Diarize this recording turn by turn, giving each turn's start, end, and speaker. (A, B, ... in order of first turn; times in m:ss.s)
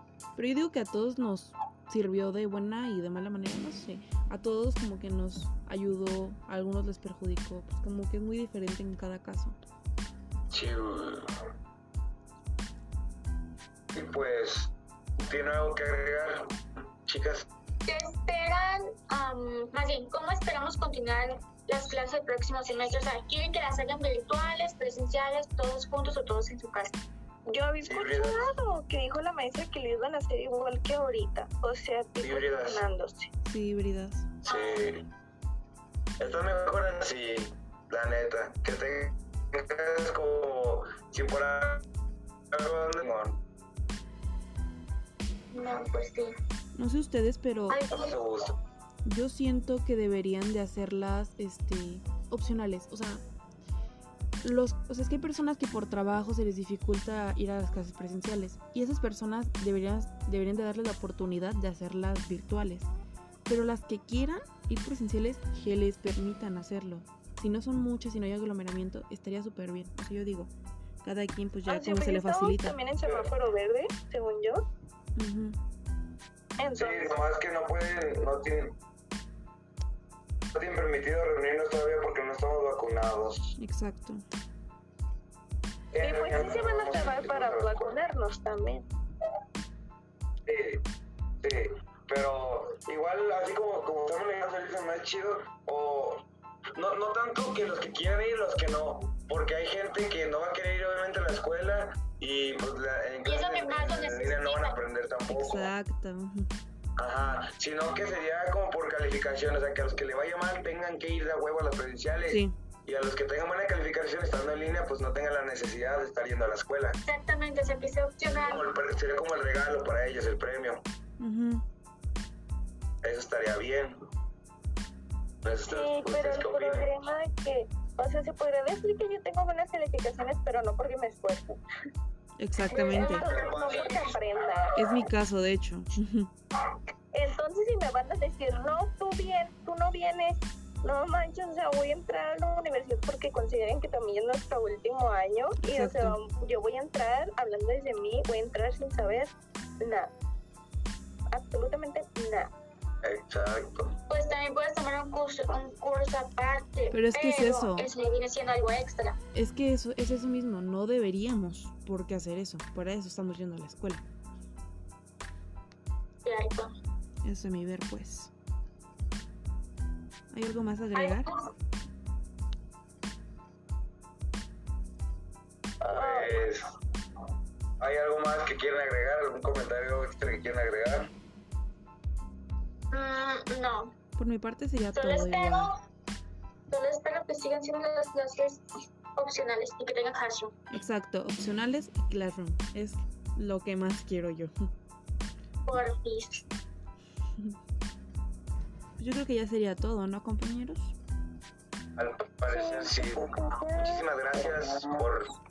0:00.4-0:09.6 A
0:10.5-0:11.3 B
0:13.9-0:16.5 B
0:17.0-0:17.5 B
0:17.9-0:27.0 C
0:27.5-0:33.3 D
0:27.8-0:28.5 B
0:32.2-0:32.9 B
0:33.4-0:34.3 A
0:34.4-0:35.1 B
0:34.5-0:34.8 C
0:36.2-0:41.8 B
0:42.5-0:43.4 B
0:45.5-0:46.3 C
0:46.8-0:47.8 A
0:47.7-0:48.2 C
0:47.9-0:48.6 B
0:49.0-0:53.2 A
0:54.4-1:02.9 A
1:03.5-1:10.5 A
1:11.0-1:12.8 A
1:11.7-1:14.6 D
1:13.0-1:13.3 B
1:15.2-1:15.6 A
1:16.6-1:17.2 D
1:16.8-1:18.8 B
1:20.5-1:23.6 B
1:23.6-1:24.2 A
1:25.9-1:28.0 B
1:26.0-1:28.9 D
1:30.5-1:30.8 B
1:31.4-1:45.7 B
1:43.2-1:44.8 C
1:45.3-1:46.5 A
1:47.0-1:57.0 B
1:52.3-1:52.6 A
1:57.1-1:58.6 C
1:58.4-2:00.8 B
2:01.2-2:01.6 A
2:03.0-2:04.1 B
2:05.4-2:07.0 B
2:05.7-2:11.6 D
2:12.4-2:13.2 A
2:12.7-2:14.1 C
2:12.8-2:14.9 D
2:13.2-2:14.0 B
2:14.8-2:16.3 A
2:17.1-2:30.1 D
2:25.6-2:26.2 A
2:31.3-2:32.5 D
2:33.0-2:34.0 B
2:34.1-2:39.2 C
2:36.9-2:37.9 A
2:39.3-2:44.0 A
2:46.2-2:46.7 C
2:47.2-2:48.3 A
2:50.3-2:51.3 A
2:51.0-2:51.5 C
2:55.8-2:56.7 B
2:55.8-2:56.4 D
2:57.8-3:01.1 B
3:02.9-3:03.9 C
3:04.2-3:05.7 A
3:05.0-3:05.8 C
3:06.7-3:10.5 C
3:10.7-3:14.5 A
3:15.6-3:16.5 C
3:19.0-3:21.0 A
3:22.0-3:25.3 B
3:22.5-3:24.0 D